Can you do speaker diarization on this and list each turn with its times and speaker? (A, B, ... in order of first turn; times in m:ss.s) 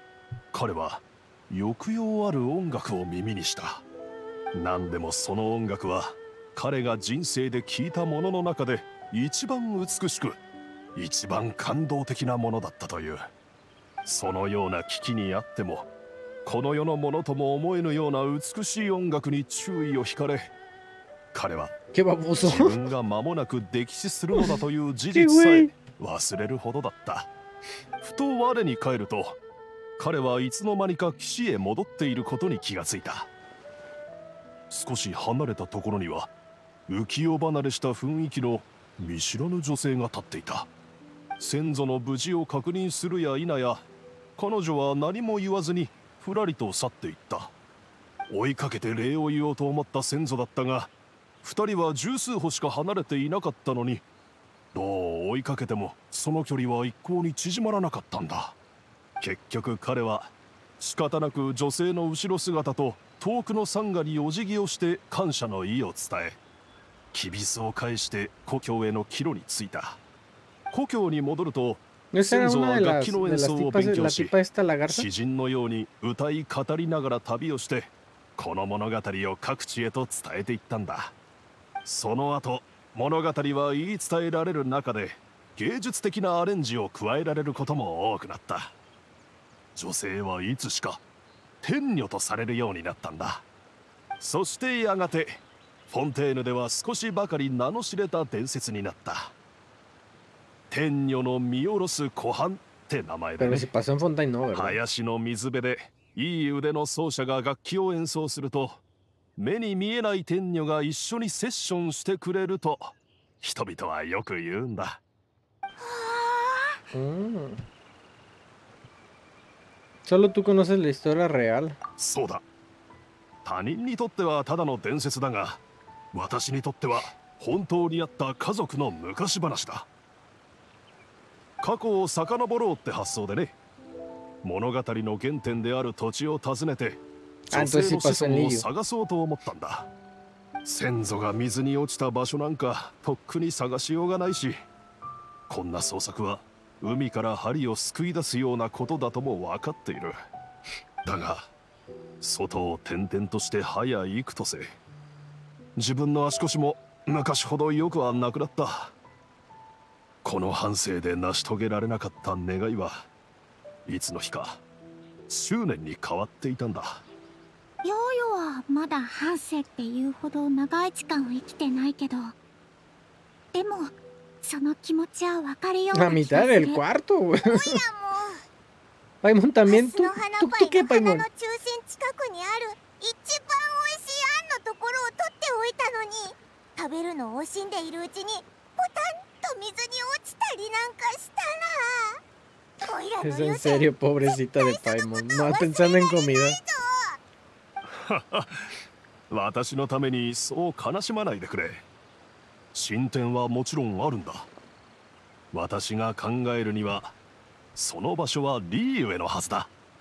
0:00.5-0:03.8 A
0:04.5-0:10.4 A
0:11.0-0:13.3 A
0:14.0-0:15.9 A
0:16.4-0:20.5 A
0:21.3-0:21.7 A
0:21.9-0:22.8 B
0:22.4-0:27.3 A
0:24.3-0:24.6 B
0:25.1-0:25.7 B
0:28.0-0:29.4 A
0:30.0-0:33.3 A
0:34.7-0:36.3 A
0:36.9-0:40.7 A
0:41.4-0:43.8 A
0:44.4-0:47.5 A
0:48.3-0:50.9 A
0:51.4-0:54.0 A
0:54.7-0:58.6 A
0:59.2-1:06.4 A
1:07.1-1:10.0 A
1:10.7-1:14.3 A
1:12.1-1:15.1 B
1:14.9-1:21.1 A
1:21.8-1:28.7 A
1:29.7-1:31.0 A
1:31.6-1:33.4 A
1:34.2-1:39.3 A
1:40.7-1:43.7 A
1:43.4-1:44.8 B
1:44.5-1:48.8 A
1:49.4-1:55.0 A
1:55.8-1:56.8 C
1:56.9-1:57.6 B
2:00.0-2:01.8 B
2:02.0-2:02.4 A
2:03.4-2:05.6 A
2:06.1-2:09.9 A
2:11.6-2:13.5 A
2:14.4-2:19.9 A
2:17.5-2:18.7 B
2:20.6-2:24.6 A
2:25.5-2:30.2 A
2:31.0-2:31.5 A
2:32.2-2:34.7 A
2:35.8-2:38.9 A
2:40.2-2:43.1 A
2:43.8-2:44.6 A
2:45.3-2:47.0 A
2:47.8-2:52.3 C
2:53.5-2:53.9 C
2:54.4-2:56.8 C
2:55.9-2:57.8 B
2:57.5-2:58.4 C
2:59.2-3:01.2 B
2:59.6-3:12.2 C
3:12.8-3:17.2 C
3:13.2-3:16.6 B
3:17.9-3:18.7 A
3:19.3-3:21.8 A
3:22.7-3:24.5 A
3:25.5-3:27.1 A
3:27.8-3:29.7 A